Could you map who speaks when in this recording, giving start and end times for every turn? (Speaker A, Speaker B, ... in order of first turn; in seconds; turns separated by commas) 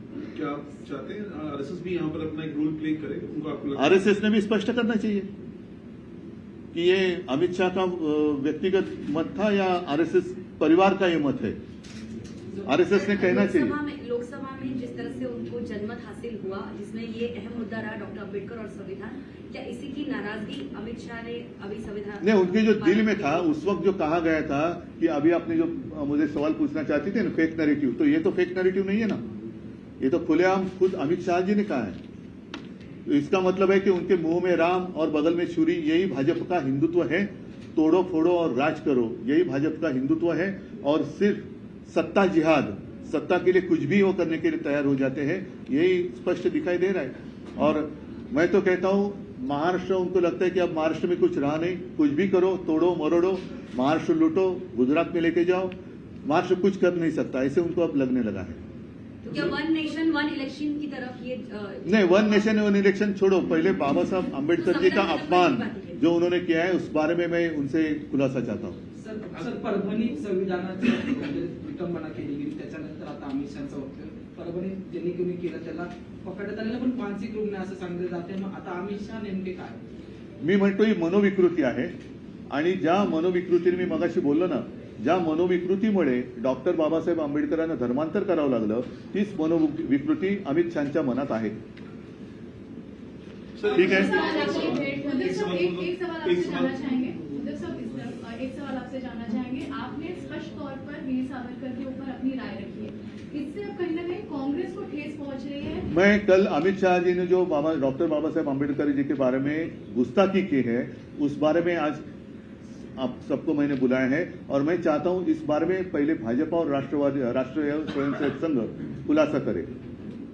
Speaker A: 0.3-4.2, Speaker B: 3.8-5.3, Speaker B: 6.7-11.6, Speaker B: 12.7-13.8, Speaker C: 12.8-23.5, Speaker B: 22.2-29.2, Speaker B: 30.0-32.0, Speaker B: 33.1-55.7, Speaker B: 56.2-58.6, Speaker C: 59.2-62.5, Speaker B: 61.9-68.8, Speaker C: 64.6-66.0, Speaker D: 69.0-79.8, Speaker B: 80.4-81.9, Speaker B: 82.5-91.6, Speaker A: 93.6-97.0, Speaker E: 93.7-105.9, Speaker B: 93.7-94.2, Speaker B: 105.9-112.0, Speaker B: 113.0-119.7